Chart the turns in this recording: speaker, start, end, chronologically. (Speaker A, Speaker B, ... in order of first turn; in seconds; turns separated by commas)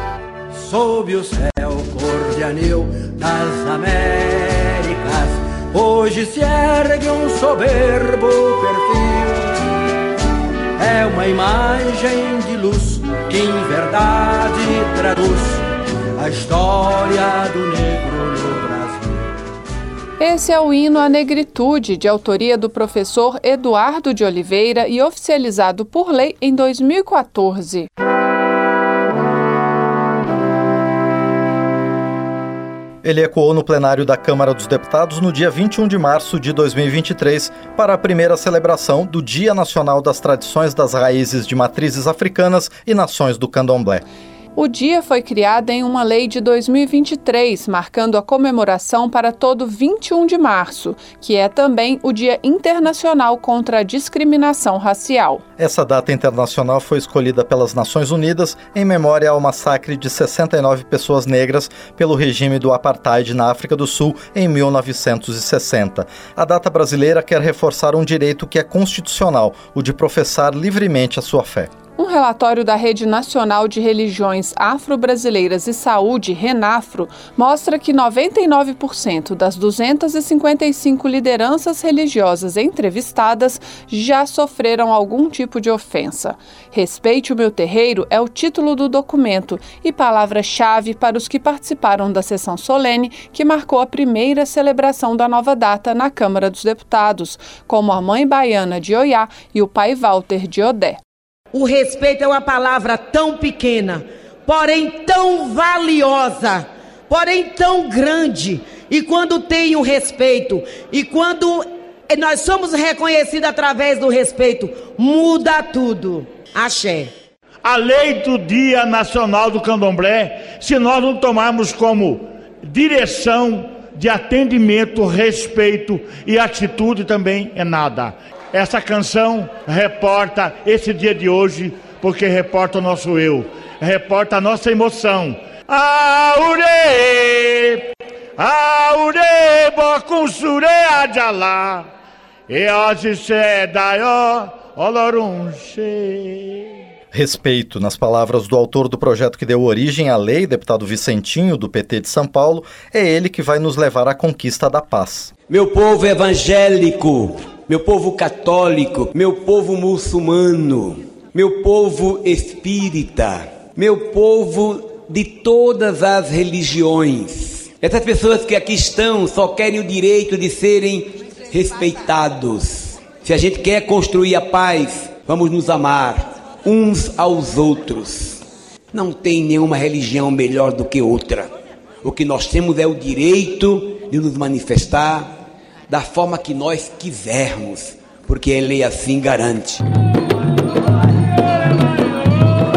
Speaker A: 0.6-9.5, Speaker A: 10.8-15.6, Speaker A: 16.2-19.2, Speaker B: 20.2-27.9, Speaker C: 33.0-44.0, Speaker B: 44.5-55.4, Speaker C: 55.6-71.7, Speaker B: 72.0-101.0, Speaker D: 101.5-117.1, Speaker E: 117.7-137.8, Speaker E: 138.4-141.8, Speaker E: 142.5-146.4, Speaker C: 147.1-155.3, Speaker F: 155.5-178.4, Speaker F: 178.9-181.5, Speaker F: 182.0-185.3, Speaker F: 185.9-189.8